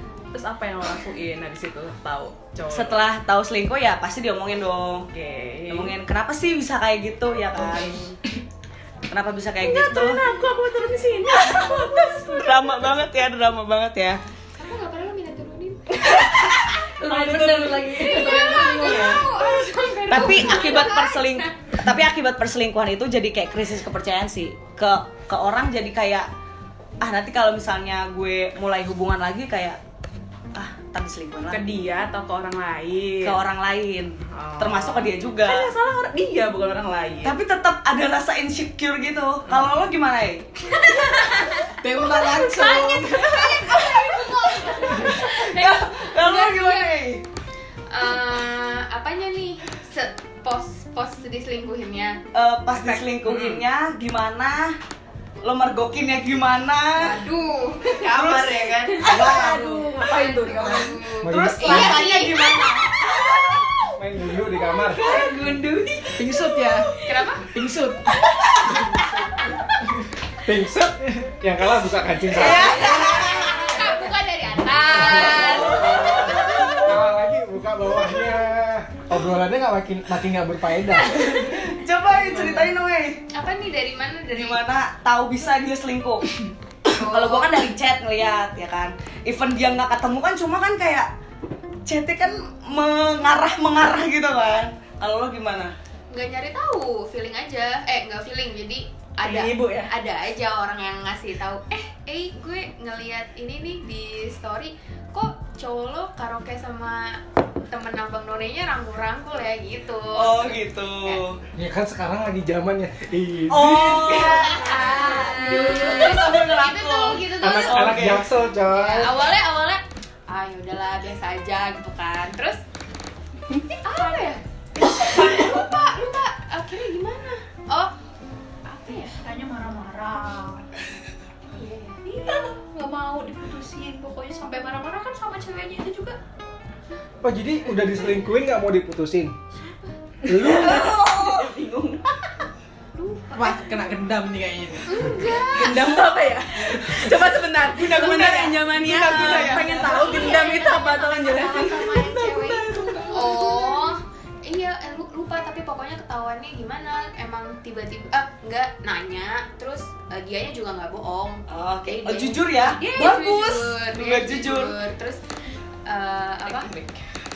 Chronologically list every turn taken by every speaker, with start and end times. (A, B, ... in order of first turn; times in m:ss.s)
0:00.3-0:03.0 A
0:02.7-0:05.1 B
0:05.1-0:05.9 A
0:05.7-0:08.0 B
0:07.6-0:08.1 A
0:09.1-0:10.2 B
0:09.6-0:12.9 A
0:11.4-0:11.7 B
0:12.3-0:14.2 B
0:14.6-0:16.0 C
0:16.2-0:19.3 A
0:16.2-0:17.8 B
0:17.9-0:21.5 C
0:18.8-0:19.2 B
0:20.1-0:26.3 B
0:20.2-0:20.5 A
0:27.0-0:29.8 B
0:30.5-0:31.6 B
0:31.5-0:33.4 A
0:33.2-0:35.7 B
0:34.3-0:37.4 A
0:37.2-0:41.0 B
0:41.0-0:41.6 C
0:41.8-0:43.4 D
0:42.2-0:46.9 C
0:42.6-0:42.9 E
0:43.3-0:44.0 B
0:43.5-0:45.0 E
0:45.2-0:47.2 B
0:47.9-0:52.2 C
0:52.3-0:54.8 B
0:53.2-0:53.6 A
0:55.4-0:57.2 B
0:57.0-0:58.4 C
0:58.0-0:59.6 B
0:58.3-1:01.0 A
0:59.1-1:02.8 C
0:59.1-0:59.6 D
1:01.2-1:02.1 F
1:01.4-1:03.7 B
1:04.0-1:05.0 F
1:04.9-1:06.1 B
1:05.0-1:06.1 A
1:06.2-1:06.9 D
1:07.0-1:07.4 C
1:07.4-1:08.0 D
1:10.4-1:12.8 F
1:12.3-1:13.7 B
1:12.5-1:16.9 C
1:15.0-1:15.7 A
1:15.0-1:16.2 B
1:16.2-1:21.2 F
1:21.1-1:23.2 B
1:23.3-1:24.6 C
1:24.3-1:31.1 B
1:26.9-1:27.5 C
1:31.8-1:35.7 B
1:36.1-1:51.2 C
1:39.2-1:39.9 A
1:50.1-1:51.4 B
1:51.6-1:54.3 F
1:53.5-1:58.2 B
1:54.2-1:58.0 C
1:54.4-1:56.2 E
1:55.6-1:56.0 A
1:57.4-1:59.2 F
1:58.7-2:02.6 C
2:03.8-2:07.9 C
2:08.6-2:09.2 C
2:08.9-2:10.7 E
2:11.5-2:12.0 C
2:12.0-2:16.2 E
2:17.2-2:19.3 F
2:20.2-2:21.0 F
2:20.3-2:22.1 A
2:20.5-2:21.5 B
2:23.0-2:24.0 C
2:23.3-2:25.2 D
2:24.8-2:25.9 C
2:25.5-2:33.3 A
2:27.7-2:30.1 B
2:29.8-2:31.6 C
2:29.9-2:33.8 E
2:33.1-2:45.2 C
2:41.5-2:44.7 B
2:45.8-2:46.7 C
2:46.6-2:46.9 A